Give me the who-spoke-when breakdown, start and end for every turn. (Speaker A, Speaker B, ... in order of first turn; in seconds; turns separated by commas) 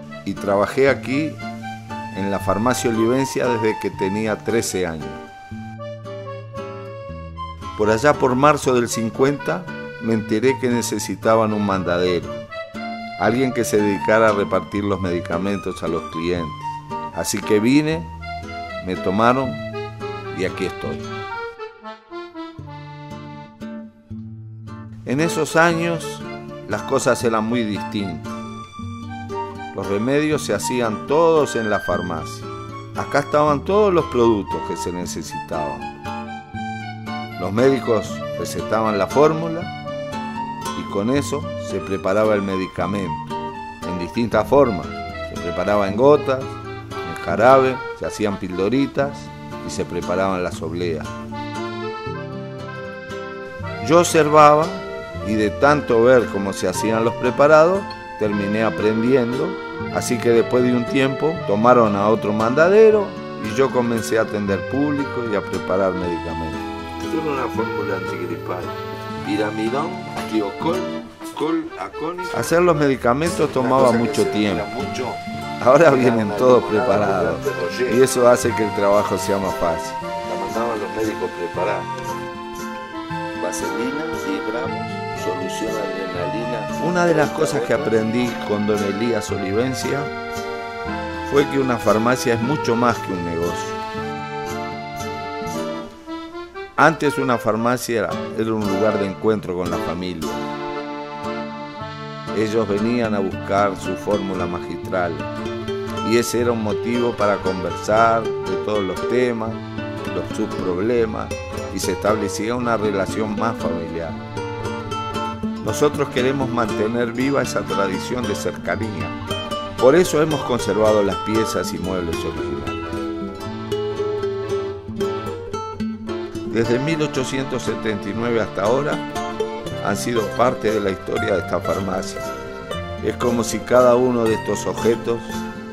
Speaker A: 0.2-1.4, Speaker A: 2.1-5.2, Speaker A: 7.8-12.4, Speaker A: 13.2-18.1, Speaker A: 18.8-19.6, Speaker A: 20.3-21.1, Speaker A: 25.0-28.3, Speaker A: 29.7-35.9, Speaker A: 37.4-39.7, Speaker A: 40.7-51.1, Speaker A: 53.8-68.4, Speaker B: 68.4-68.7, Speaker B: 69.2-72.9, Speaker A: 72.3-74.7, Speaker B: 73.4-75.2, Speaker A: 75.6-80.0, Speaker B: 75.8-78.2, Speaker B: 80.3-81.9, Speaker B: 83.4-88.0, Speaker A: 86.7-90.1, Speaker A: 91.2-93.8, Speaker A: 96.8-100.4, Speaker A: 102.3-105.3, Speaker A: 106.0-114.2, Speaker A: 115.6-119.2, Speaker A: 119.8-122.8, Speaker A: 126.5-129.1, Speaker A: 129.8-132.2, Speaker A: 133.0-135.4